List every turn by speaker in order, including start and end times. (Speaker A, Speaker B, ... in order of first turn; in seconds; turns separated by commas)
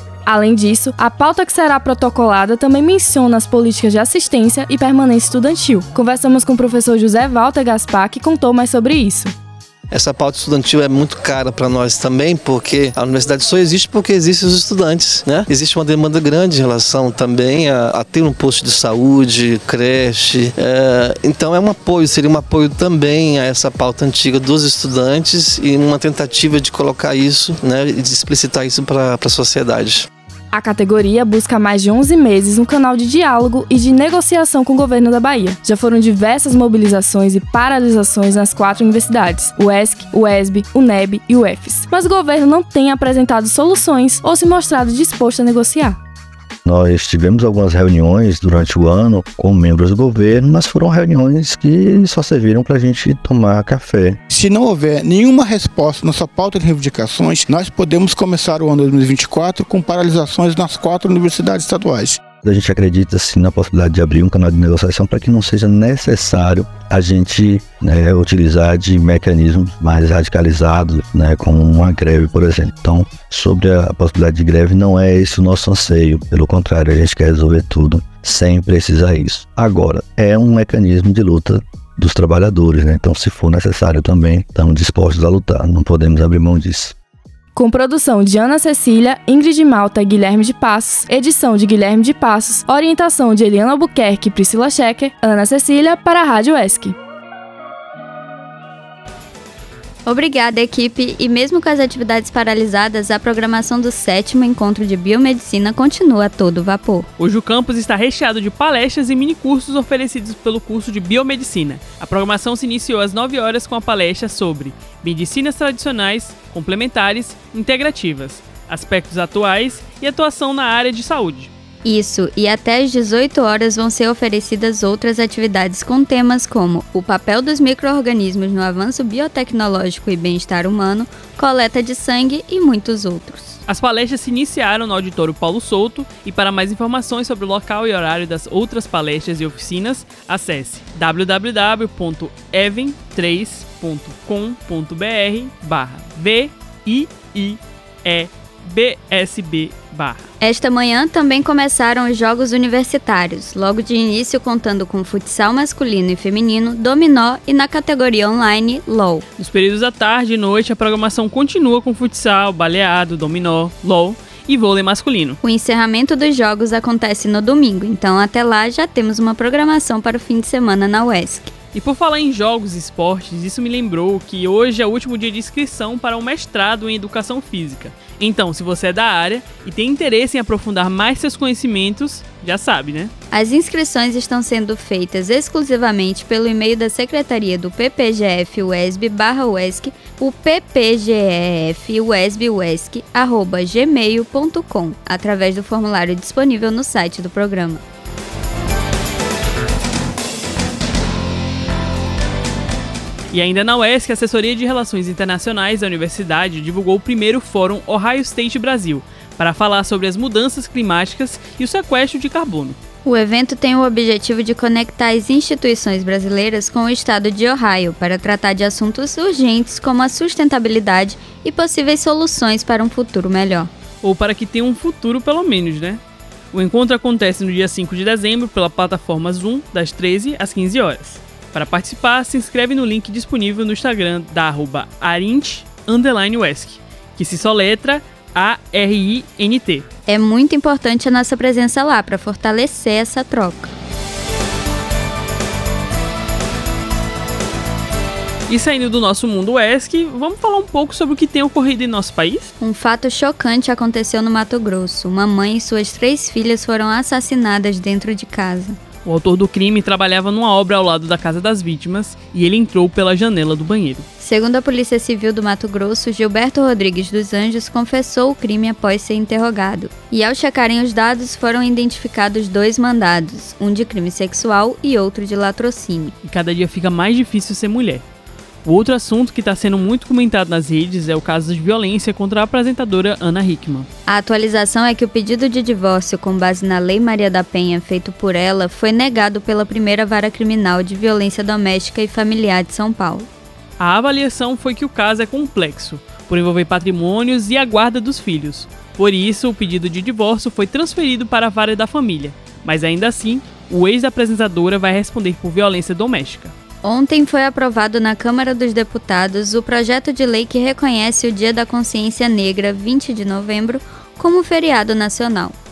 Speaker A: 0.3-9.3, Speaker B: 9.9-30.1, Speaker A: 30.5-46.0, Speaker C: 46.6-54.2, Speaker D: 54.3-62.2, Speaker C: 62.4-86.9, Speaker A: 87.5-97.0, Speaker E: 100.0-107.1, Speaker F: 107.2-121.5, Speaker E: 121.8-133.6, Speaker F: 133.7-150.3, Speaker E: 150.4-159.2, Speaker F: 159.4-165.4, Speaker E: 165.4-171.5, Speaker F: 171.7-183.1, Speaker E: 183.3-197.8, Speaker F: 203.3-212.8, Speaker E: 213.0-223.7, Speaker F: 224.0-239.8, Speaker E: 240.1-243.7, Speaker F: 248.5-252.5, Speaker E: 252.6-258.8, Speaker F: 259.0-264.1, Speaker E: 264.2-276.1, Speaker F: 276.2-278.0, Speaker F: 278.6-283.9, Speaker E: 284.1-293.3, Speaker F: 293.8-306.5, Speaker E: 306.8-315.6